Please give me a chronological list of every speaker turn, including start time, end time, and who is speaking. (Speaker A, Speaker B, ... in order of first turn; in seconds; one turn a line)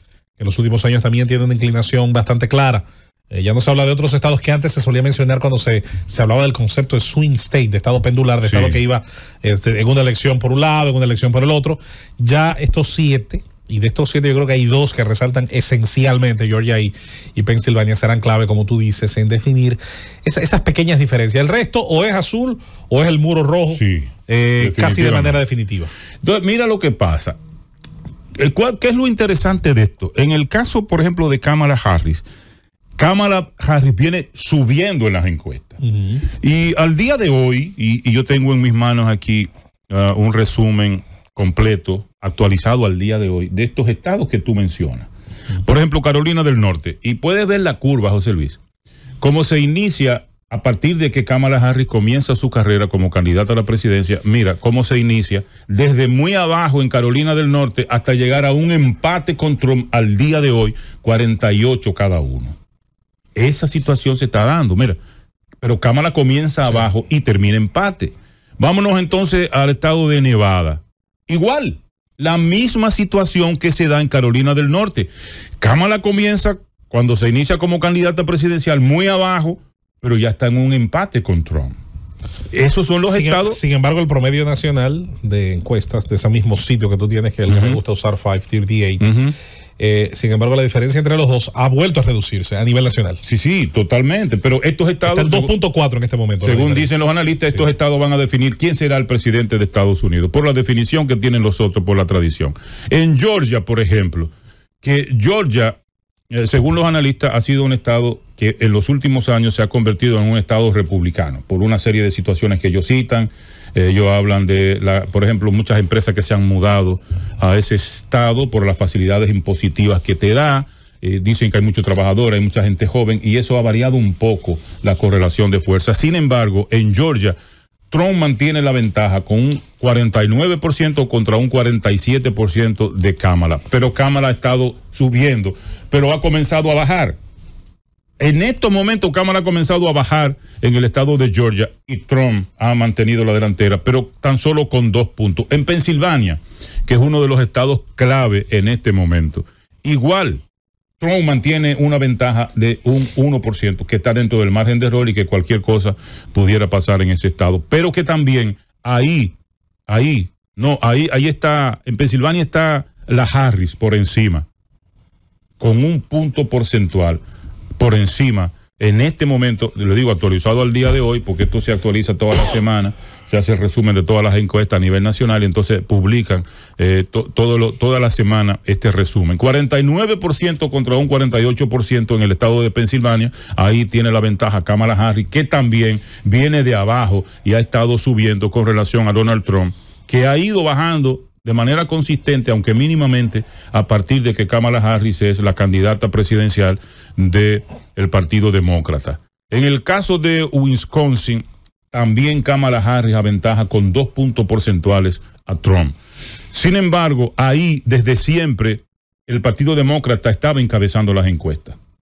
Speaker A: 0.4-25.9
Speaker B: 8.4-8.8
Speaker B: 23.7-25.4
Speaker B: 26.2-27.4
Speaker B: 28.4-32.2
Speaker B: 33.0-35.8
Speaker A: 35.8-36.2
Speaker B: 36.4-45.1
Speaker B: 45.6-48.6
Speaker B: 49.2-62.6
Speaker B: 63.3-65.0
Speaker B: 65.6-75.1
Speaker B: 75.6-81.8
Speaker B: 82.5-83.6
Speaker A: 83.0-89.1
Speaker B: 87.5-87.8
Speaker B: 89.0-89.3
Speaker A: 89.8-93.2
Speaker B: 93.2-95.5
Speaker A: 95.0-97.6
Speaker B: 96.4-105.8
Speaker B: 106.3-127.3
Speaker B: 127.9-137.2
Speaker B: 138.2-150.4
Speaker B: 151.0-159.3
Speaker B: 159.9-164.4
Speaker B: 165.6-167.2
Speaker B: 167.8-205.9
Speaker B: 206.5-211.8